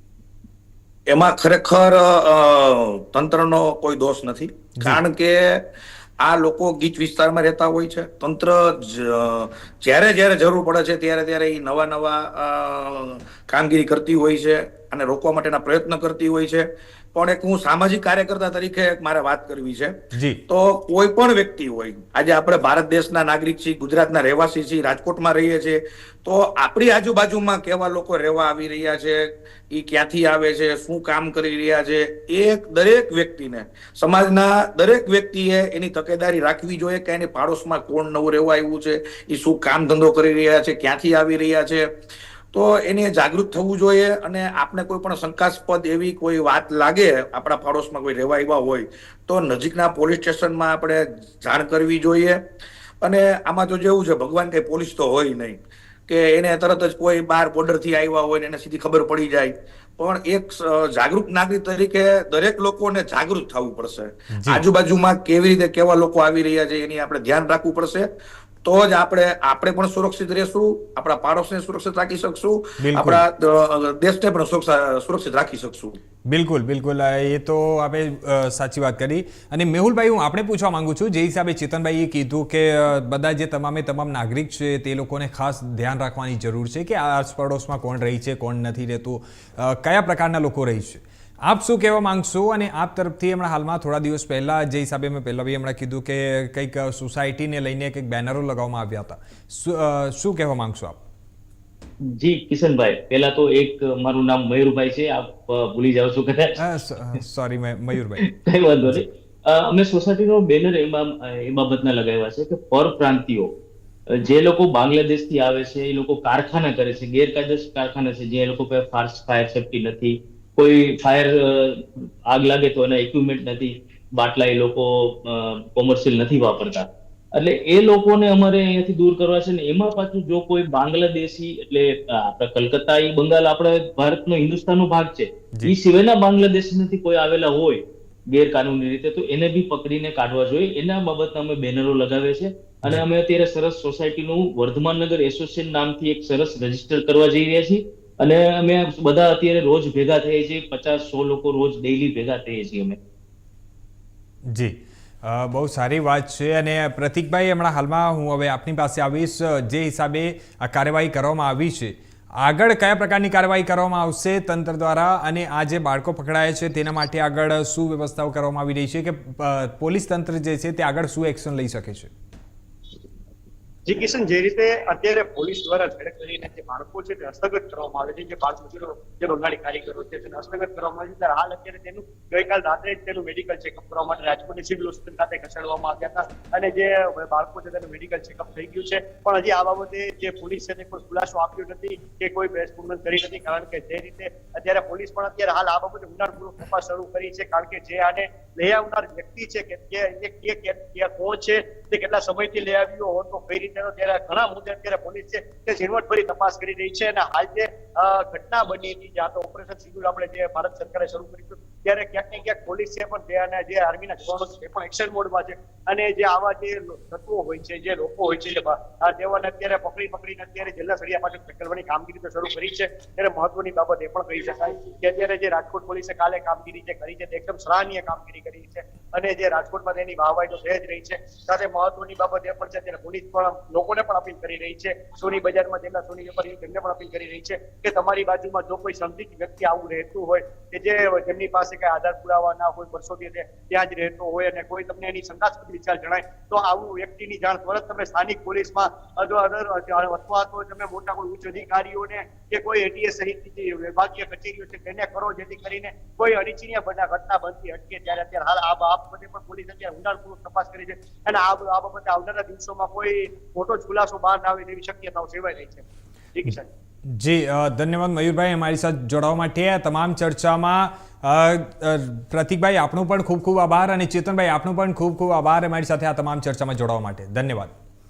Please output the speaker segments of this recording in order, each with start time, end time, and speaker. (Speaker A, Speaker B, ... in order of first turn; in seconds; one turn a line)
Speaker A: 1.1-5.6
Speaker A: 6.2-20.0
Speaker B: 20.1-20.4
Speaker A: 20.5-41.9
Speaker A: 42.5-52.4
Speaker A: 53.0-68.1
Speaker B: 64.3-64.6
Speaker A: 68.6-76.0
Speaker B: 72.8-73.2
Speaker B: 76.3-101.0
Speaker C: 102.0-106.6
Speaker B: 106.6-108.3
Speaker C: 108.3-113.5
Speaker C: 114.1-153.0
Speaker B: 154.5-172.1
Speaker D: 173.9-266.7
Speaker B: 267.1-277.7